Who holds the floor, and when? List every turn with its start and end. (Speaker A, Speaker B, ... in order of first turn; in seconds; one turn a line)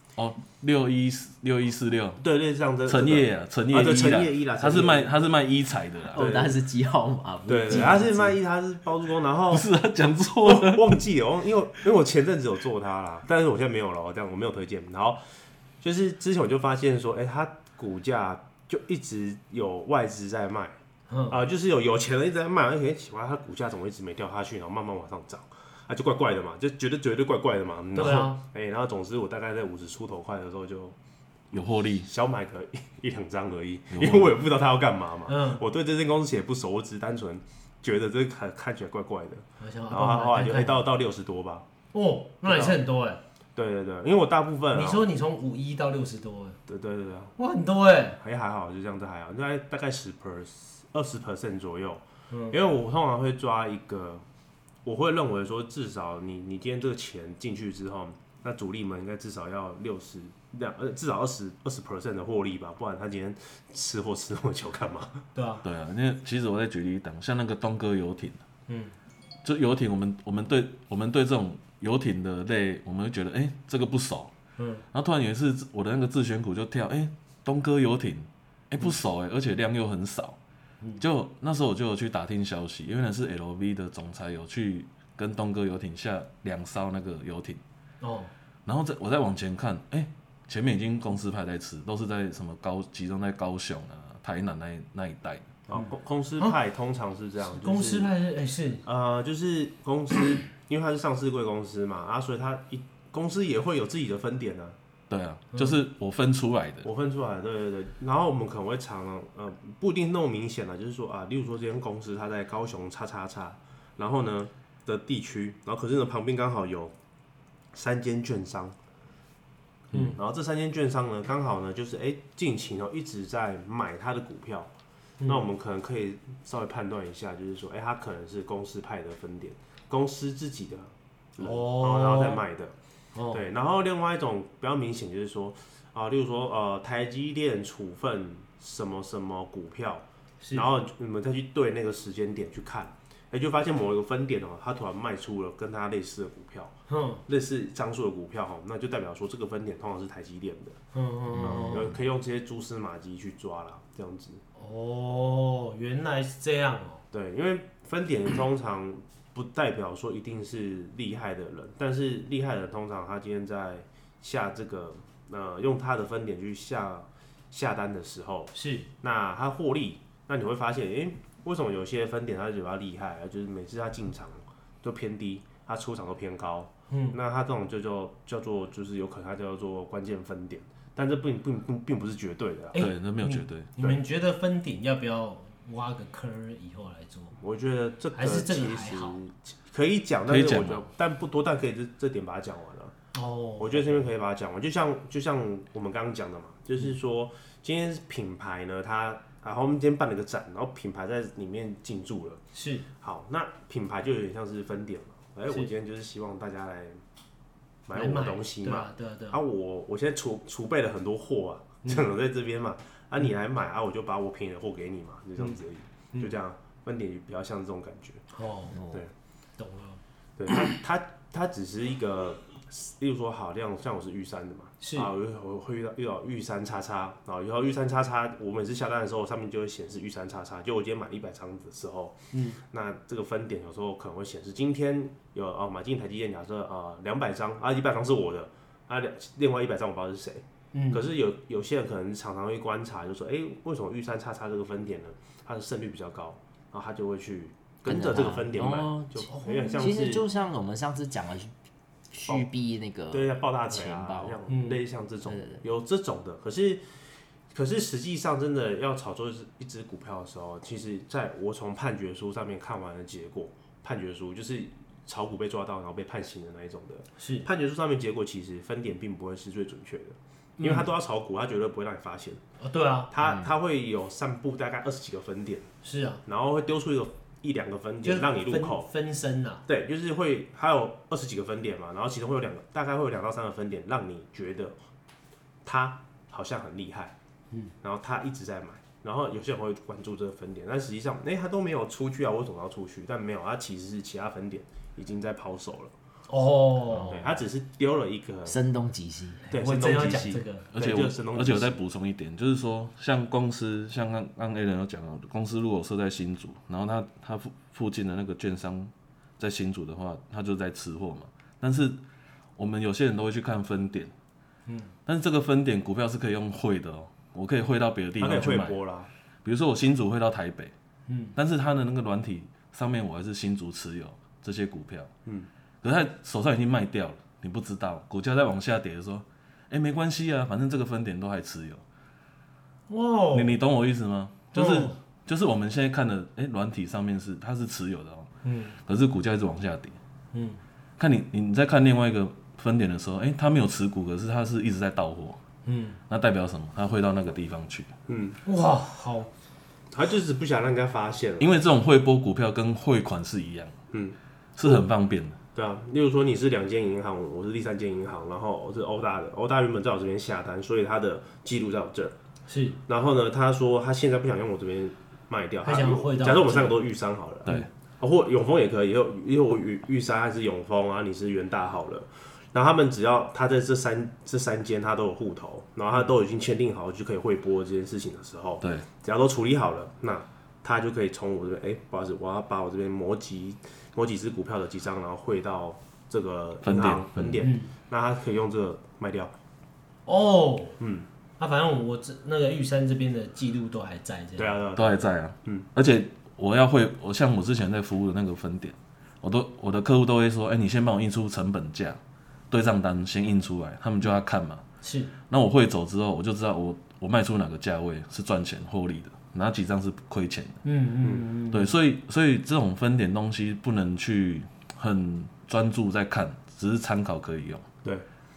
Speaker A: 0.1-2.2
Speaker B: 2.2-5.1
Speaker A: 2.9-6.2
Speaker C: 6.1-8.4
Speaker B: 6.1-6.6
Speaker B: 7.5-9.7
Speaker D: 7.7-8.0
Speaker A: 9.5-10.9
Speaker B: 10.4-15.2
Speaker B: 15.8-20.8
Speaker D: 21.1-21.4
Speaker B: 21.3-31.0
Speaker D: 27.9-28.4
Speaker A: 31.5-32.1
Speaker B: 31.6-41.6
Speaker A: 33.9-34.4
Speaker D: 35.3-35.6
Speaker D: 39.6-40.8
Speaker D: 41.9-43.2
Speaker B: 42.4-42.8
Speaker B: 43.6-45.1
Speaker D: 44.7-46.6
Speaker B: 46.7-47.3
Speaker D: 47.4-48.2
Speaker B: 48.2-54.2
Speaker D: 52.3-52.6
Speaker B: 54.9-65.2
Speaker D: 65.3-65.6
Speaker A: 65.6-68.4
Speaker D: 68.7-68.9
Speaker A: 69.4-74.3
Speaker D: 74.6-74.8
Speaker A: 74.9-80.4
Speaker A: 81.0-87.6
Speaker D: 88.0-88.3
Speaker A: 88.6-95.5
Speaker B: 95.7-98.1
Speaker D: 95.7-96.5
Speaker D: 97.6-98.8
Speaker B: 98.8-104.8
Speaker A: 105.1-106.9
Speaker D: 105.5-105.8
Speaker B: 106.8-116.9
Speaker B: 117.7-118.8
Speaker B: 119.9-124.7
Speaker B: 125.2-132.7
Speaker D: 131.4-132.4
Speaker D: 133.1-133.4
Speaker B: 133.3-146.8
Speaker D: 140.4-140.7
Speaker D: 146.9-147.2
Speaker B: 147.2-150.8
Speaker D: 150.9-151.9
Speaker B: 151.4-154.4
Speaker C: 151.4-151.8
Speaker D: 154.6-157.0
Speaker B: 157.1-182.8
Speaker D: 168.6-168.9
Speaker D: 176.9-177.2
Speaker D: 182.7-187.4
Speaker A: 182.8-183.7
Speaker B: 187.4-192.9
Speaker D: 188.1-189.2
Speaker A: 190.3-190.9
Speaker D: 193.1-194.0
Speaker B: 193.6-202.4
Speaker D: 202.5-202.9
Speaker B: 202.9-207.0
Speaker B: 207.9-218.2
Speaker D: 207.9-209.4
Speaker D: 218.3-218.8
Speaker D: 219.6-220.0
Speaker B: 220.4-250.2
Speaker D: 224.8-225.1
Speaker D: 232.3-232.6
Speaker D: 240.7-241.0
Speaker C: 247.9-251.5
Speaker D: 249.3-250.0
Speaker C: 252.1-254.4
Speaker B: 253.1-256.8
Speaker D: 254.5-254.8
Speaker C: 255.3-255.6
Speaker B: 257.5-272.4
Speaker D: 267.2-267.5
Speaker D: 270.6-270.9
Speaker D: 272.6-273.1
Speaker B: 273.1-275.7
Speaker D: 275.8-276.2
Speaker B: 276.2-278.9
Speaker D: 278.0-279.6
Speaker B: 279.6-284.8
Speaker B: 285.6-287.1
Speaker B: 287.8-295.9
Speaker D: 296.3-297.3
Speaker B: 297.0-298.6
Speaker C: 298.5-299.4
Speaker D: 299.5-300.7
Speaker B: 299.5-301.8
Speaker A: 300.7-312.0
Speaker A: 312.6-314.1
Speaker A: 315.1-318.8
Speaker B: 318.2-319.1
Speaker A: 319.4-320.7
Speaker D: 321.1-321.4
Speaker A: 321.4-325.1
Speaker A: 325.8-331.8
Speaker D: 332.9-333.6
Speaker A: 333.3-338.3
Speaker D: 334.5-335.0
Speaker D: 338.4-338.8
Speaker A: 338.9-340.0
Speaker D: 340.3-340.6
Speaker A: 341.0-345.4
Speaker D: 345.6-346.0
Speaker A: 346.1-347.9
Speaker B: 348.1-348.4
Speaker D: 348.4-349.3
Speaker B: 349.9-351.5
Speaker A: 351.4-353.7
Speaker B: 353.9-354.9
Speaker A: 354.6-355.4
Speaker B: 355.6-362.1
Speaker D: 362.5-362.8
Speaker B: 362.9-389.3
Speaker D: 365.6-366.8
Speaker A: 378.6-378.9
Speaker A: 386.6-387.4
Speaker D: 387.4-387.7
Speaker D: 390.1-390.8
Speaker B: 390.8-391.1
Speaker D: 391.4-394.6
Speaker B: 394.4-395.7
Speaker A: 394.8-404.6
Speaker D: 404.8-405.1
Speaker A: 405.3-410.6
Speaker D: 410.6-411.8
Speaker A: 411.5-417.6